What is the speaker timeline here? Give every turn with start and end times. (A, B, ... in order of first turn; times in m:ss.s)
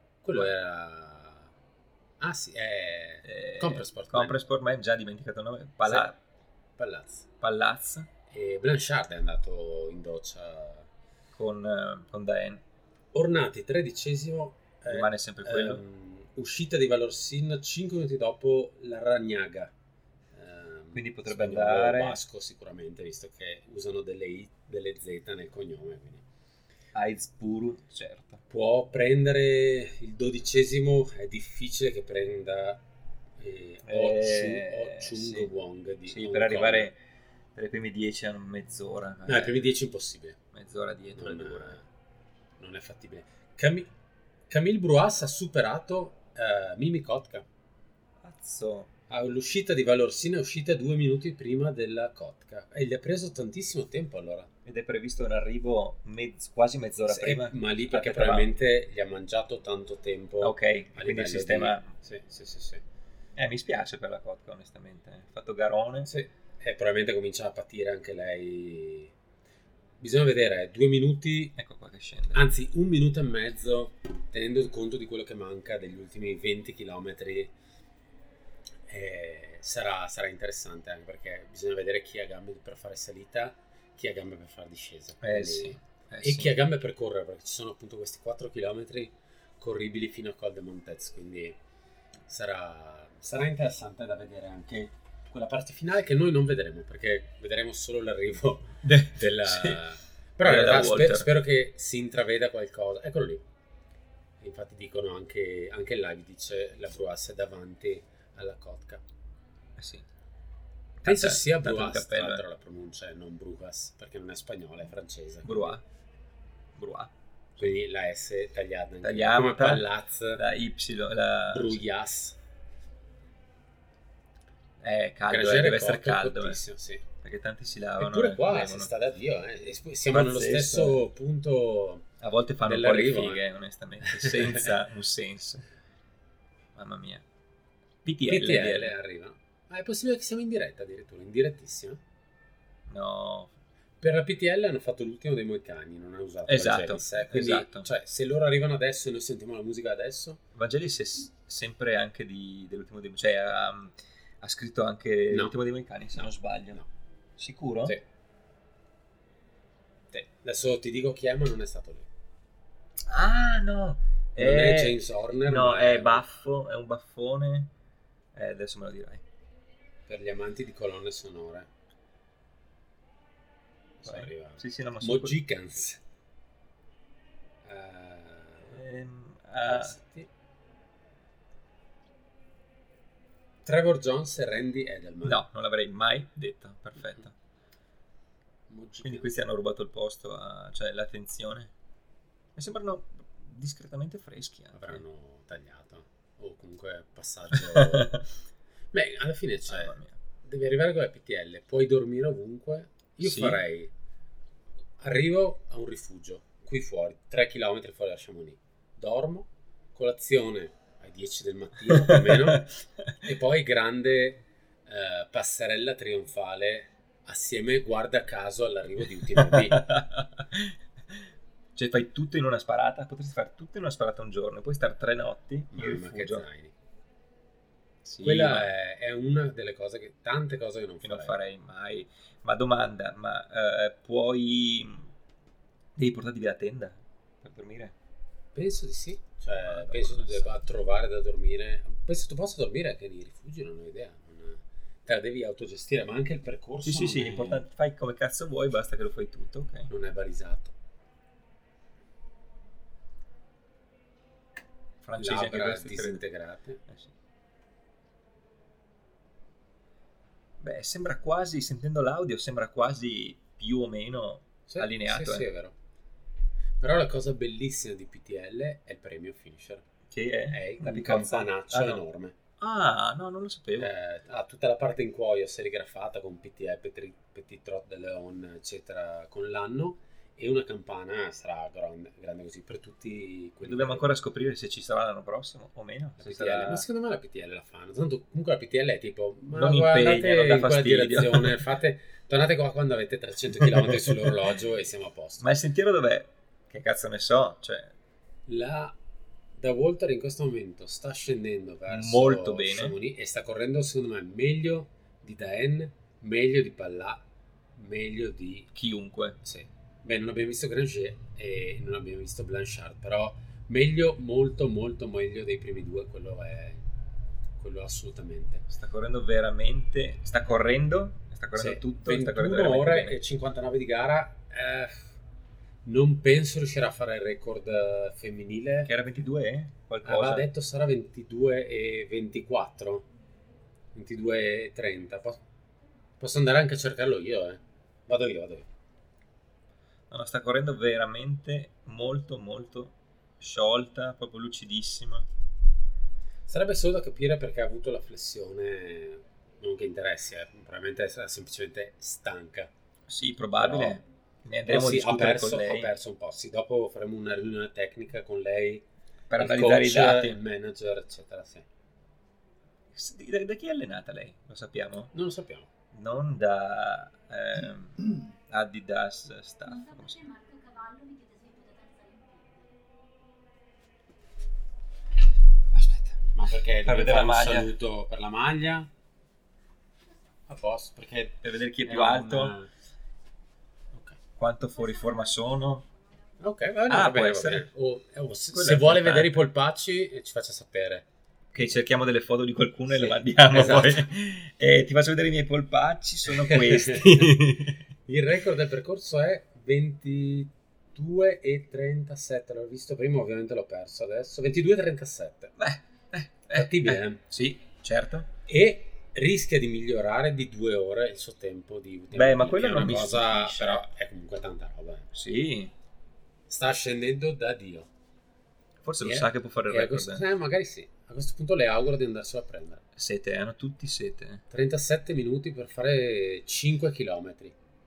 0:00.2-0:01.5 A
0:02.2-0:04.4 A
0:03.2-0:06.2 B
0:05.8-0:06.1 A
0:06.8-0:07.3 A
0:07.4-0:08.1 B
0:08.3-0:10.9 A
0:11.3-0:12.6 B
0:13.1-0:19.7 A
0:14.9-0:15.8 B
0:20.3-0:26.2 A
0:20.9-0:22.2 B
0:26.9-0:28.4 B
0:28.5-0:32.8 A
0:33.4-0:36.9 A
0:33.8-0:35.5 B
0:36.1-0:37.0 B
0:37.5-0:39.7 B
0:39.2-0:40.4 A
0:40.5-0:41.8 B
0:41.2-0:41.8 A
0:42.6-0:43.9 A
0:44.5-0:47.4 A
0:48.2-0:48.9 B
0:49.1-0:54.5 A
0:54.6-0:58.5 B
0:57.1-1:02.8 A
1:00.4-1:01.9 B
1:03.4-1:06.1 B
1:06.0-1:09.1 A
1:10.0-1:11.6 A
1:11.6-1:12.4 B
1:12.3-1:17.5 A
1:18.9-1:31.6 A
1:25.2-1:26.5 B
1:32.3-1:43.4 A
1:38.8-1:39.8 B
1:40.4-1:41.3 B
1:44.4-1:49.0 A
1:49.8-1:50.0 B
1:51.0-1:52.4 B
1:51.0-1:55.8 A
1:55.4-1:55.8 B
1:56.8-1:57.7 B
1:57.6-2:00.4 A
1:59.0-2:01.8 B
2:01.5-2:02.4 A
2:04.8-2:06.6 B
2:05.3-2:07.0 A
2:07.2-2:08.9 B
2:08.0-2:12.0 A
2:10.1-2:11.0 B
2:12.2-2:15.6 B
2:12.6-2:13.4 A
2:14.0-2:14.7 A
2:16.7-2:17.2 B
2:18.0-2:18.9 B
2:18.3-2:22.0 A
2:22.9-2:23.5 B
2:24.0-2:30.4 A
2:26.5-2:27.9 B
2:30.5-2:36.8 B
2:35.3-2:35.5 A
2:37.4-2:38.0 B
2:40.1-2:42.1 A
2:43.0-2:47.7 B
2:44.4-2:46.2 A
2:48.3-2:49.2 B
2:50.1-2:51.7 A
2:54.0-2:56.0 A
2:54.0-2:55.4 B
2:57.6-2:58.8 A
2:58.7-3:00.0 B
2:59.6-3:00.3 A
3:03.6-3:05.4 A
3:05.2-3:07.3 B
3:08.7-3:09.3 A
3:09.0-3:11.7 B
3:12.6-3:15.0 B
3:14.7-3:18.2 A
3:17.5-3:18.3 B
3:18.9-3:23.9 A
3:19.7-3:20.2 B
3:23.2-3:23.6 B
3:25.0-3:32.7 A
3:31.9-3:33.2 B
3:33.2-3:39.8 A
3:39.3-3:40.8 B
3:41.7-3:46.4 B
3:45.7-3:46.7 A
3:48.0-3:48.7 B
3:48.2-3:51.4 A
3:51.0-3:55.1 B
3:56.0-3:57.9 B
3:58.5-4:07.6 A
3:59.6-4:00.6 B
4:06.8-4:09.9 B
4:09.9-4:10.7 A
4:15.0-4:16.2 B
4:15.2-4:16.8 A
4:20.6-4:25.4 B
4:24.7-4:25.7 A
4:26.8-4:29.8 A
4:30.1-4:32.0 B
4:30.5-4:32.4 A
4:32.6-4:33.9 B
4:33.8-4:44.1 A
4:43.6-4:46.8 B
4:46.2-4:55.5 A
4:49.5-4:51.6 B
4:53.6-4:54.3 B
4:55.4-4:57.9 B
4:58.5-4:59.0 A
4:59.6-5:07.2 A
5:01.9-5:03.0 B
5:07.8-5:08.7 A
5:08.7-5:09.4 B
5:09.4-5:16.8 A
5:17.6-5:18.6 A
5:18.7-5:23.2 B
5:21.6-5:25.2 A
5:25.8-5:28.9 A
5:28.8-5:30.5 B
5:30.0-5:33.1 A
5:33.9-5:35.4 A
5:36.2-5:38.7 A
5:40.1-5:45.3 B
5:46.5-5:52.7 A
5:53.1-5:55.9 B
5:53.6-5:54.0 A
5:54.6-6:01.7 A
5:59.3-6:00.4 B
6:02.9-6:05.1 B
6:05.1-6:05.7 A
6:05.9-6:10.2 B
6:09.6-6:12.7 C
6:15.7-6:16.2 B
6:16.3-6:18.9 A
6:16.8-6:17.7 B
6:20.5-6:22.7 A
6:21.4-6:22.6 B
6:24.4-6:25.8 B
6:24.7-6:26.4 C
6:26.4-6:31.0 A
6:26.9-6:27.7 B
6:28.5-6:29.4 B
6:31.5-6:37.8 B
6:32.9-6:34.1 A
6:36.3-6:37.4 A
6:38.1-6:45.5 A
6:45.6-6:48.3 B
6:46.5-6:47.2 A
6:48.5-6:55.1 A
6:52.1-6:53.8 B
6:55.1-6:55.7 B
6:56.5-6:57.9 A
6:58.8-7:00.2 B
6:59.0-7:02.8 A
7:02.9-7:04.4 B
7:04.5-7:07.5 A